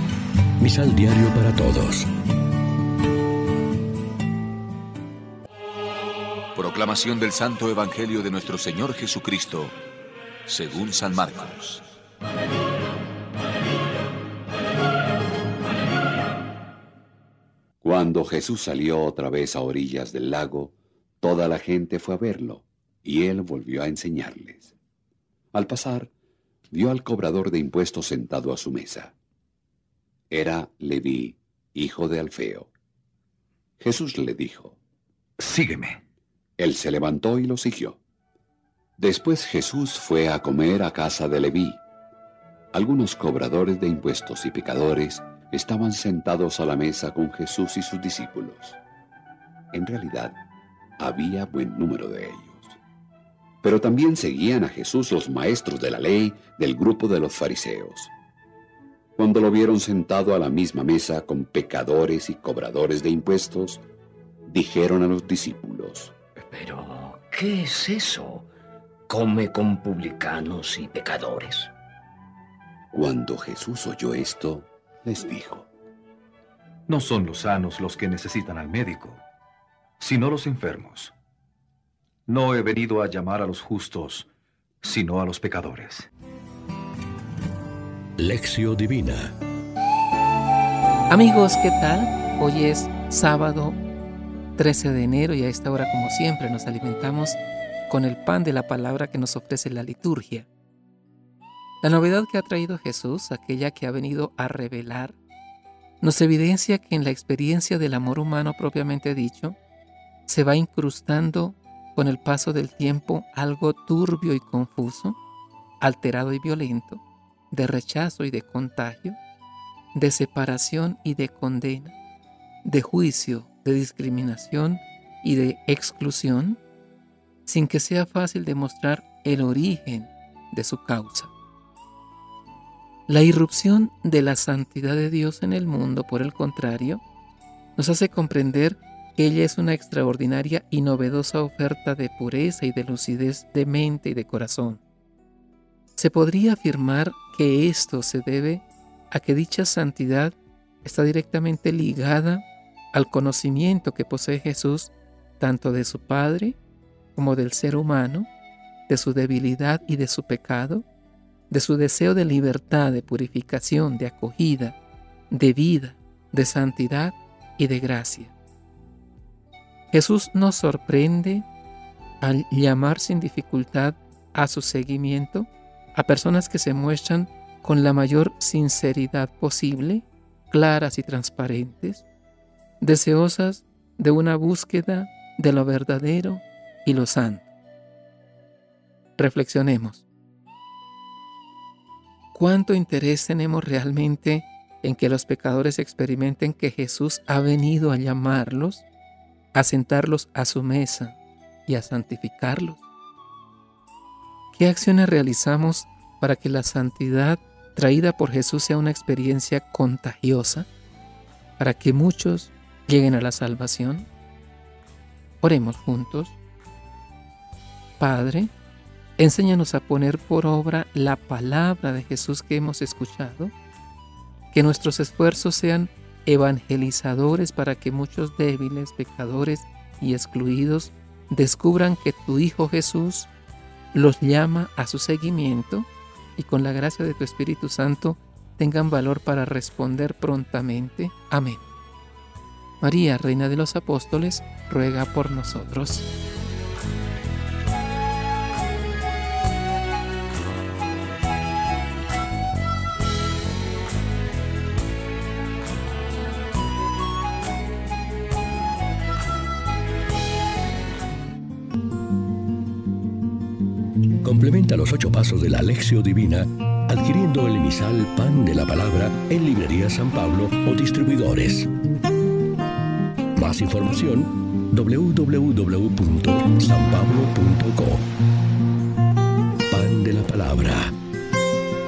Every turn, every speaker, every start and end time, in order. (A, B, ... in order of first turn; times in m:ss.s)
0:00.6-0:02.1 A
0:06.5-0:09.7 B
0:10.5-0:11.8 B
0:17.8-0:24.7 C
0:25.5-0:26.1 C
0:26.7-0:29.1 C
0:30.3-0:32.7 C
0:33.8-0:34.8 C
0:35.4-0:36.0 D
0:36.6-0:38.0 C
0:39.0-0:41.8 C
0:42.7-0:48.8 C
0:49.7-0:50.4 C
0:51.0-0:52.8 C
0:53.6-0:58.1 C
0:59.2-1:03.8 C
1:04.4-1:06.1 C
1:06.4-1:08.5 E
1:09.1-1:11.7 E
1:12.9-1:15.7 C
1:16.9-1:19.2 D
1:20.0-1:21.1 D
1:22.3-1:24.3 D
1:24.8-1:26.1 D
1:28.2-1:29.3 A
1:31.1-1:33.8 F
1:34.6-1:40.5 F
1:41.8-1:45.2 F
1:46.0-1:49.6 F
1:50.3-1:55.2 F
1:55.8-1:59.2 F
1:59.9-2:02.0 F
2:02.6-2:06.6 F
2:07.4-2:11.3 F
2:13.1-2:17.0 F
2:17.8-2:24.8 F
2:26.0-2:36.6 F
2:37.1-2:38.3 F
2:38.9-2:40.8 F
2:41.5-2:44.8 F
2:45.3-2:48.3 F
2:49.9-2:51.4 F
2:52.2-3:02.0 F
3:02.8-3:07.5 F
3:09.2-3:10.0 F
3:12.3-3:18.8 F
3:19.5-3:22.8 F
3:24.5-3:30.7 F
3:31.6-3:34.1 F
3:35.4-3:36.4 F
3:38.0-3:38.5 F
3:39.2-3:43.5 F
3:44.5-3:53.3 F
3:53.9-4:01.6 F
4:02.8-4:06.0 F
4:24.2-4:31.7 A
4:33.3-4:38.0 A
4:39.7-4:40.9 A